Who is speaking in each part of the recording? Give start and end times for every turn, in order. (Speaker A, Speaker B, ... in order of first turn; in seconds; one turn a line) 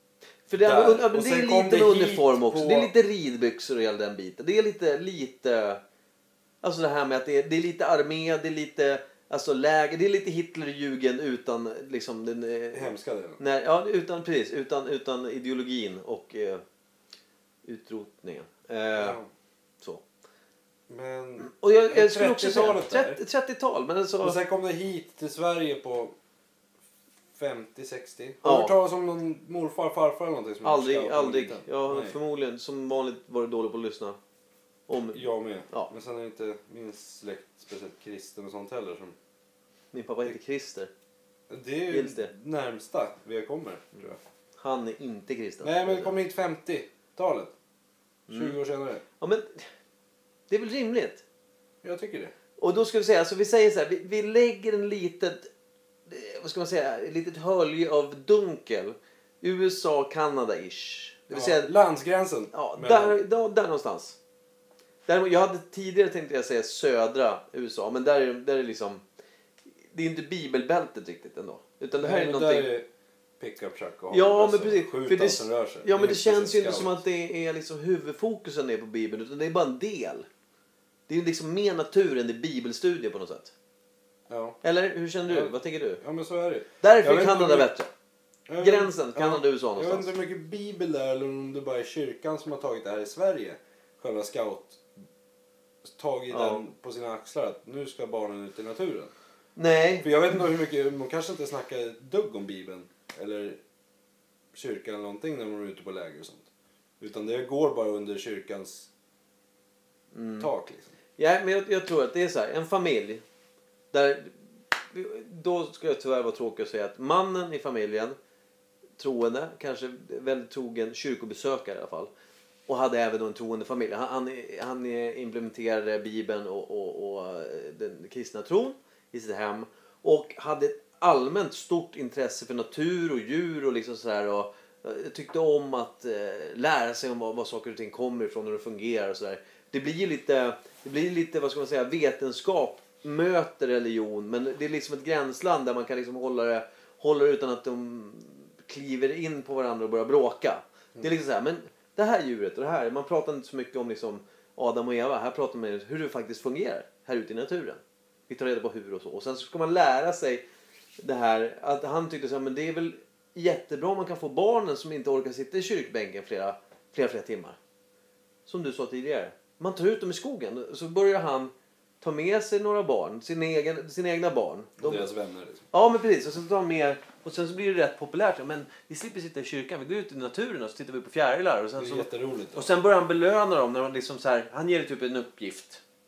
Speaker A: 0.5-5.8
Speaker B: 0.6-2.9
Speaker A: 6.6-16.6
Speaker B: 12.7-13.4
Speaker A: 17.6-19.2
Speaker B: 19.0-19.3
Speaker B: 20.9-23.2
Speaker A: 21.4-24.4
Speaker B: 24.2-26.1
Speaker B: 27.4-32.2
Speaker A: 28.4-28.7
Speaker A: 30.6-34.2
Speaker A: 34.9-35.9
Speaker B: 35.1-39.1
Speaker A: 39.9-40.9
Speaker B: 41.5-44.2
Speaker A: 41.9-42.3
Speaker A: 44.6-46.1
Speaker B: 45.6-47.5
Speaker A: 48.3-48.6
Speaker B: 48.3-49.0
Speaker A: 49.2-49.7
Speaker A: 50.5-51.2
Speaker B: 51.8-52.3
Speaker A: 52.6-55.5
Speaker A: 56.1-61.7
Speaker B: 61.3-63.2
Speaker A: 62.5-64.2
Speaker A: 65.1-69.0
Speaker A: 69.9-72.7
Speaker B: 72.0-72.9
Speaker B: 73.4-77.0
Speaker A: 74.1-80.3
Speaker A: 81.1-83.5
Speaker B: 84.3-84.6
Speaker A: 84.6-86.0
Speaker B: 85.3-87.7
Speaker A: 86.8-87.9
Speaker B: 88.5-94.8
Speaker A: 88.6-90.1
Speaker B: 95.8-99.1
Speaker A: 96.3-96.6
Speaker A: 99.6-100.1
Speaker B: 100.0-103.6
Speaker B: 104.5-106.5
Speaker B: 107.0-108.9
Speaker A: 110.1-110.5
Speaker B: 110.4-110.9
Speaker A: 111.2-113.2
Speaker A: 113.9-118.2
Speaker A: 119.0-122.1
Speaker A: 122.7-160.4
Speaker A: 161.0-167.6
Speaker A: 168.5-175.1
Speaker B: 174.8-175.6
Speaker A: 175.7-185.8
Speaker B: 181.8-182.7